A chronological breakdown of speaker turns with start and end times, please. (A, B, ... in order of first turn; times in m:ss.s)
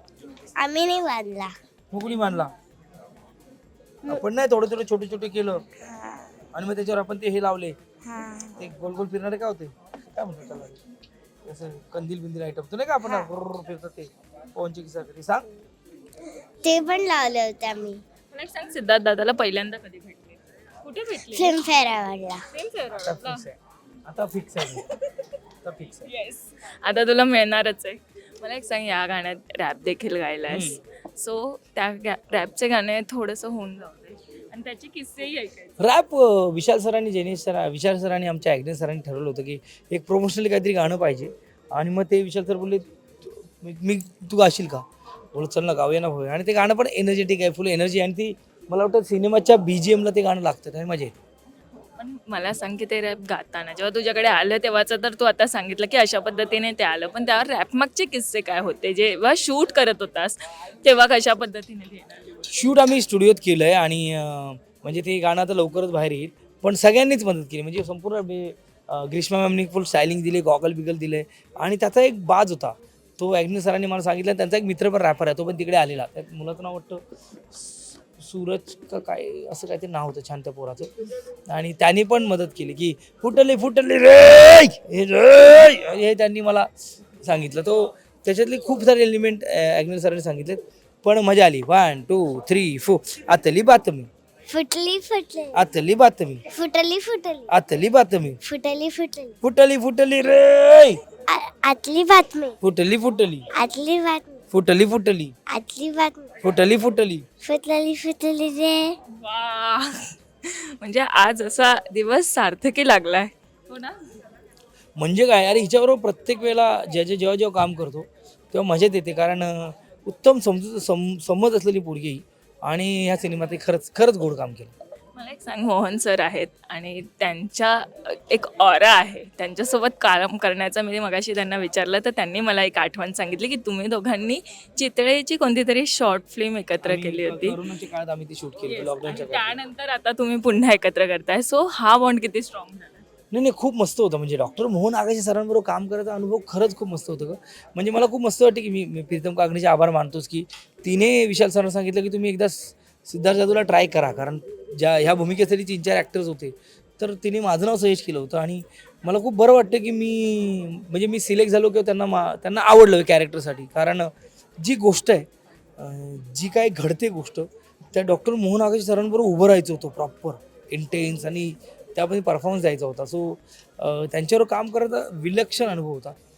0:00.6-0:01.5 A
0:01.9-0:02.5 B
0:04.1-0:05.6 B
0:05.8-0:06.3 A
0:06.5-0:07.8 B
0:08.0-0:08.6 A
0:08.6-0:10.8 B
0:11.4-0:15.5 B
0:13.0-0:13.3 A
0:16.6-0:18.0 A
0:18.3-0:21.6 C
0:21.3-0:22.4 A
0:22.5-0:23.4 C
0:23.0-0:24.9 B
0:24.8-0:25.2 C
0:25.6-0:26.1 B
0:26.0-0:35.8 C
0:30.5-0:30.8 B
0:35.8-0:51.1 B
0:52.0-1:02.5 C
1:02.5-1:17.0 B
1:17.5-1:20.9 B
1:21.5-1:26.7 B
1:27.2-1:34.1 B
1:34.5-1:35.6 A
1:35.5-1:36.4 B
1:36.5-1:37.5 A
1:37.5-1:38.4 B
1:38.4-1:39.4 A
1:39.4-1:41.0 B
1:41.3-1:42.6 A
1:42.6-1:43.5 B
1:43.5-1:44.4 A
1:44.5-1:45.3 B
1:45.5-1:46.4 A
1:46.4-1:47.2 B
1:47.4-1:49.0 A
1:49.2-1:54.0 C
1:55.0-2:04.7 B
2:05.2-2:17.6 C
2:16.8-2:19.6 B
2:18.6-2:23.1 C
2:23.3-2:45.2 B
2:45.8-2:56.2 B